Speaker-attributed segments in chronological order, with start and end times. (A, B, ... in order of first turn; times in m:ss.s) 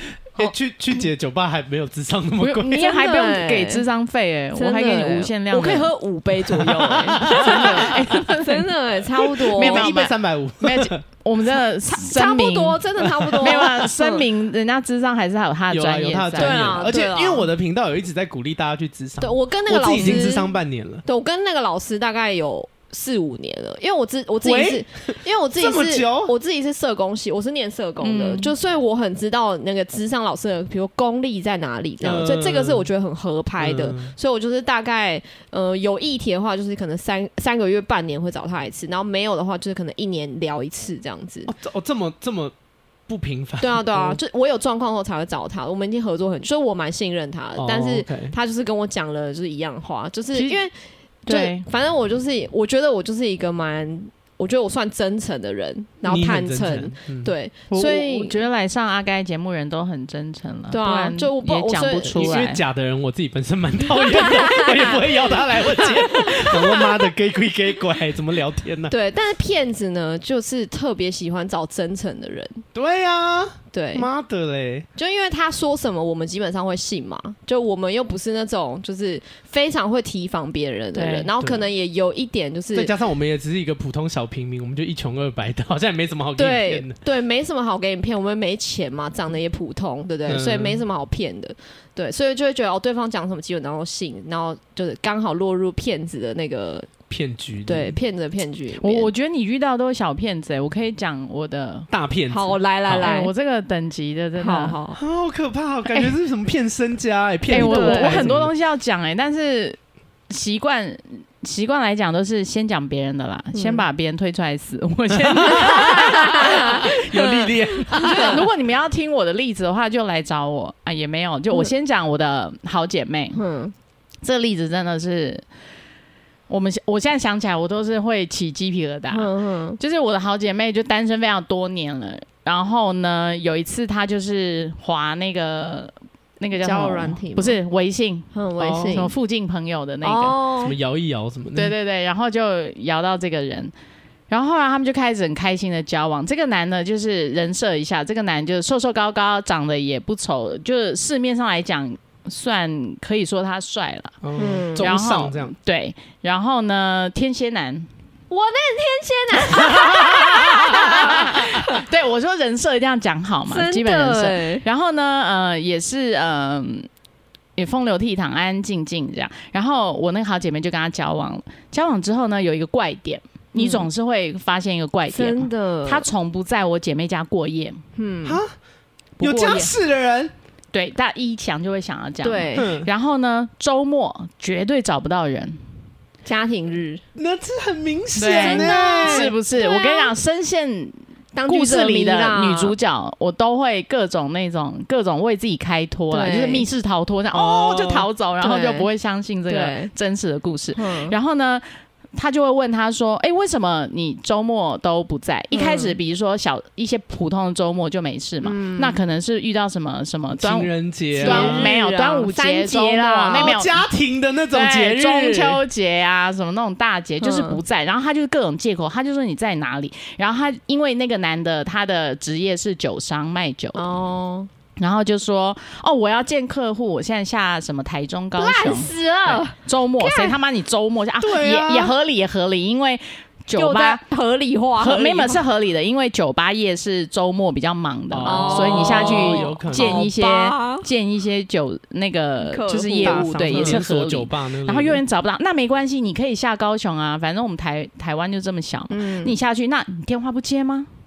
0:00.3-0:02.8 A
0:02.4-0:05.9 B
0:02.7-0:03.8 C
0:04.5-0:09.9 C
0:06.5-0:08.2 A
0:07.2-0:08.7 B
0:09.2-0:11.0 A
0:09.5-0:12.8 B
0:11.9-0:14.3 C
0:13.0-0:13.4 A
0:13.4-0:16.8 B
0:15.7-0:21.0 A
0:16.4-0:17.5 C
0:19.2-0:41.5 C
0:20.0-0:20.3 B
0:24.4-0:26.3 A
0:28.0-0:28.5 B
0:32.0-0:32.9 A
0:33.6-0:34.1 A
0:41.4-0:42.5 A
0:43.1-0:44.2 A
0:43.6-0:50.7 C
0:47.6-0:48.4 A
0:50.3-0:50.6 B
0:51.2-0:51.6 B
0:51.3-0:58.4 C
0:56.0-0:57.3 A
0:57.7-1:02.6 B
1:00.7-1:02.3 C
1:02.1-1:08.9 A
1:03.9-1:06.9 C
1:08.9-1:12.6 C
1:12.7-1:14.9 A
1:13.7-1:14.1 C
1:15.0-1:22.9 C
1:20.9-1:21.3 B
1:22.7-1:27.0 A
1:26.4-1:36.9 C
1:30.3-1:30.8 A
1:37.1-1:38.0 A
1:37.7-1:39.1 C
1:38.8-1:41.9 B
1:41.9-1:43.0 A
1:42.3-1:43.3 C
1:42.9-1:44.8 B
1:44.4-1:45.0 C
1:45.0-1:48.5 A
1:47.5-1:49.8 B
1:47.5-1:48.3 C
1:50.3-1:56.9 B
1:53.5-1:53.8 C
1:55.4-1:58.4 A
1:55.4-1:58.4 C
1:57.9-2:03.4 B
2:03.3-2:03.7 C
2:04.2-2:05.4 B
2:06.5-2:20.4 B
2:09.1-2:09.8 C
2:16.6-2:17.6 C
2:18.3-2:19.1 C
2:18.6-2:18.9 A
2:20.0-2:20.8 C
2:20.6-2:21.7 A
2:21.5-2:23.7 B
2:24.3-2:34.2 B
2:34.2-2:35.5 A
2:34.4-2:34.9 C
2:34.8-2:37.9 B
2:38.3-2:41.8 C
2:39.6-2:41.6 A
2:40.4-2:46.9 B
2:43.5-2:44.6 C
2:47.6-2:57.8 B
2:53.5-2:53.9 C
2:55.1-2:56.1 C
2:58.0-2:58.4 C
2:58.2-2:58.5 A
2:59.2-2:59.7 B
2:59.2-3:00.3 A
3:00.7-3:05.6 B
3:02.2-3:02.7 C
3:02.6-3:02.9 A
3:06.2-3:07.0 C
3:07.2-3:09.3 A
3:08.2-3:21.6 B
3:08.2-3:10.1 C
3:11.3-3:12.7 C
3:16.1-3:16.7 C
3:17.3-3:18.1 A
3:18.4-3:18.9 C
3:19.5-3:19.9 C
3:20.7-3:21.2 C
3:22.1-3:33.8 B
3:25.5-3:26.0 C
3:28.4-3:29.0 C
3:30.4-3:31.7 A
3:31.2-3:33.6 C
3:33.3-3:35.6 A
3:34.5-3:43.8 B
3:37.2-3:37.6 C
3:43.7-3:44.5 C
3:44.8-3:54.0 B
3:48.4-3:50.4 C
3:51.2-3:51.9 A
3:53.5-3:55.4 C
3:54.8-4:10.9 B
3:58.1-4:00.1 A
3:58.2-4:00.8 C
4:02.4-4:03.8 C
4:03.0-4:05.0 A
4:08.9-4:09.4 C